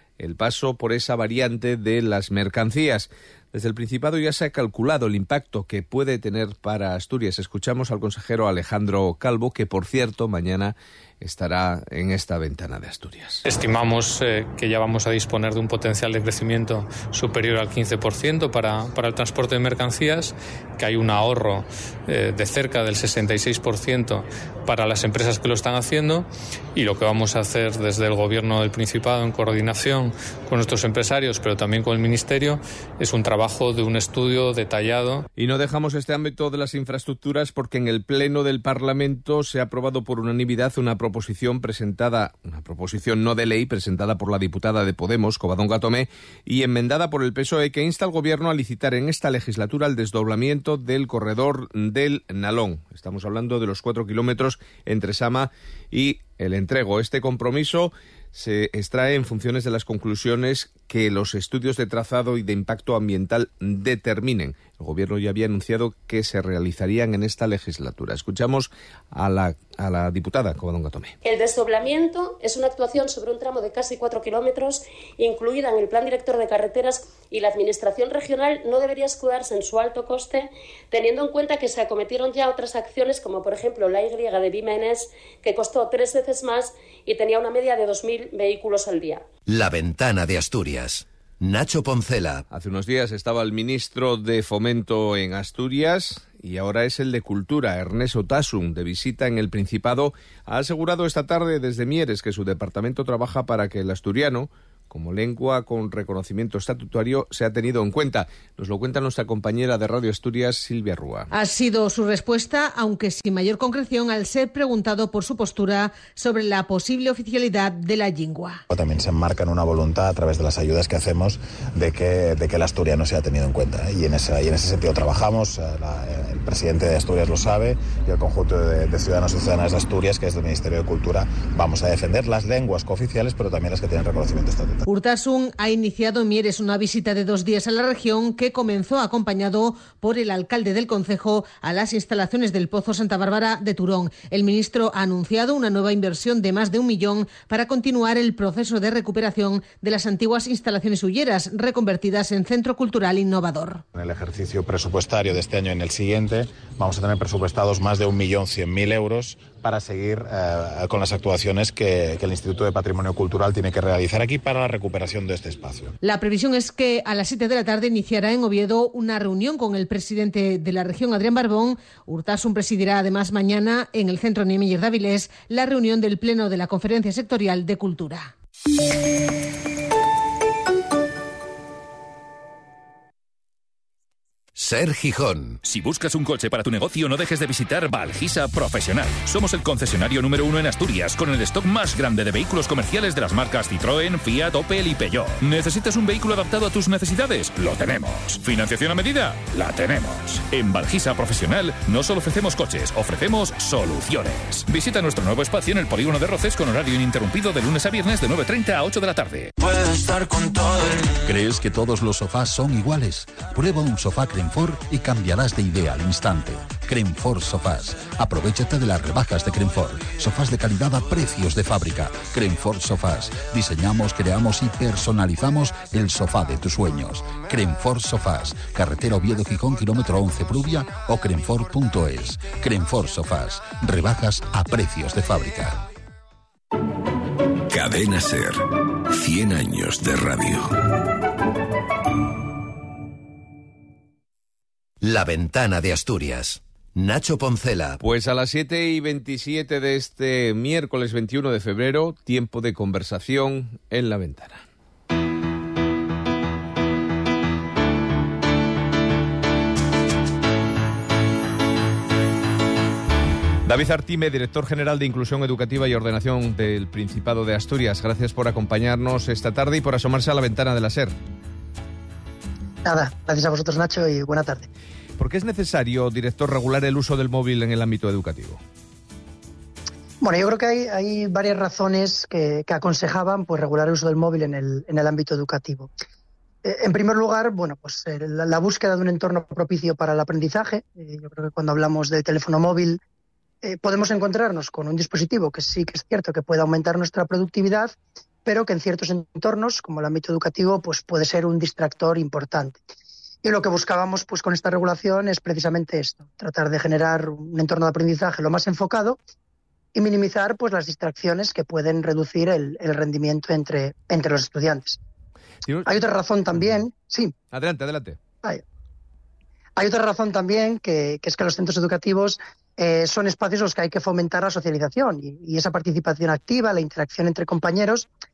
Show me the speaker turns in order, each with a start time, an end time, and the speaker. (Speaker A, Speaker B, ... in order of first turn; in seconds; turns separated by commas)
Speaker A: 0.2-13.4, Speaker B: 13.4-35.2, Speaker A: 35.4-71.1, Speaker C: 71.2-89.2, Speaker D: 89.5-92.4, Speaker A: 92.5-111.3, Speaker E: 111.3-118.6, Speaker F: 118.7-134.8, Speaker E: 134.8-153.8, Speaker F: 153.9-165.9, Speaker E: 166.0-178.3, Speaker D: 184.6-185.6, Speaker G: 185.6-210.9, Speaker H: 211.2-235.8, Speaker D: 237.7-238.3, Speaker H: 237.9-238.6, Speaker D: 239.1-240.6, Speaker H: 239.3-240.2, Speaker D: 245.0-248.0, Speaker A: 248.0-254.6, Speaker A: 263.6-271.1, Speaker I: 272.8-274.7, Speaker A: 275.2-278.6, Speaker I: 280.2-285.9, Speaker I: 286.6-293.0, Speaker I: 293.6-297.9, Speaker I: 298.4-302.8, Speaker I: 303.4-309.2, Speaker I: 309.9-315.0, Speaker A: 315.6-316.0, Speaker I: 315.9-317.3, Speaker A: 317.5-318.2, Speaker I: 319.8-328.1